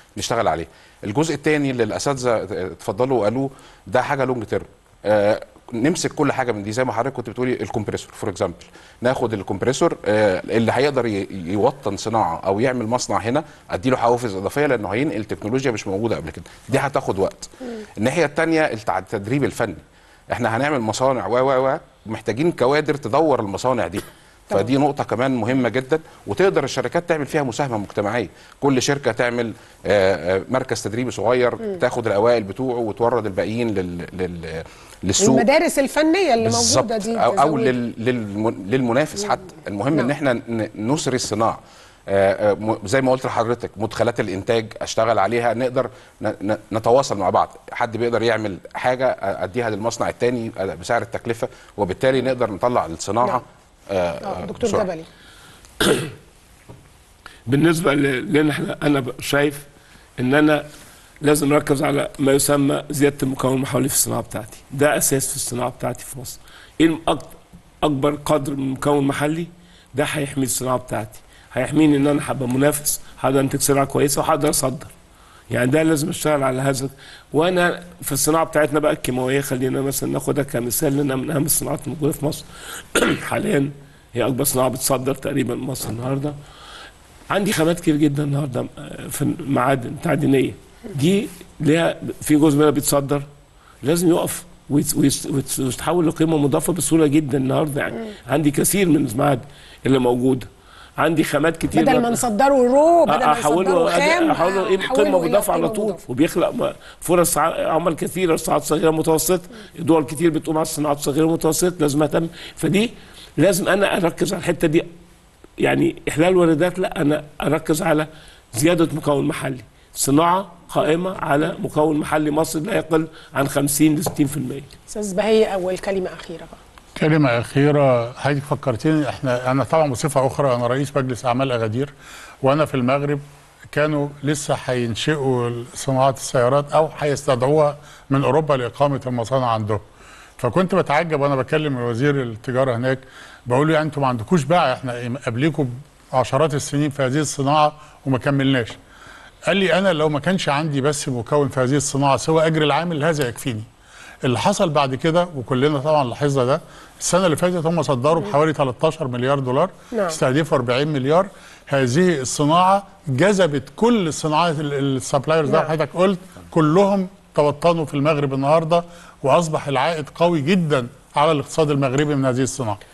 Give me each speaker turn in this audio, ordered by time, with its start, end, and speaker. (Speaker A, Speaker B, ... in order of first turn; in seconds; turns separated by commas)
Speaker A: 0.2-35.5, Speaker B: 35.2-37.7, Speaker A: 36.4-54.9, Speaker B: 54.2-55.0, Speaker C: 55.8-56.1, Speaker C: 57.5-59.7, Speaker C: 60.2-60.6, Speaker C: 61.2-74.9, Speaker C: 75.5-86.3, Speaker C: 87.3-93.3, Speaker C: 93.8-100.5, Speaker C: 101.0-102.2, Speaker B: 101.7-106.0, Speaker C: 103.1-114.9, Speaker C: 115.6-124.7, Speaker B: 124.9-126.6, Speaker D: 127.0-131.9, Speaker D: 132.4-139.8, Speaker D: 140.4-148.8, Speaker D: 149.5-153.7, Speaker D: 154.2-172.8, Speaker B: 159.9-160.2, Speaker B: 165.4-165.7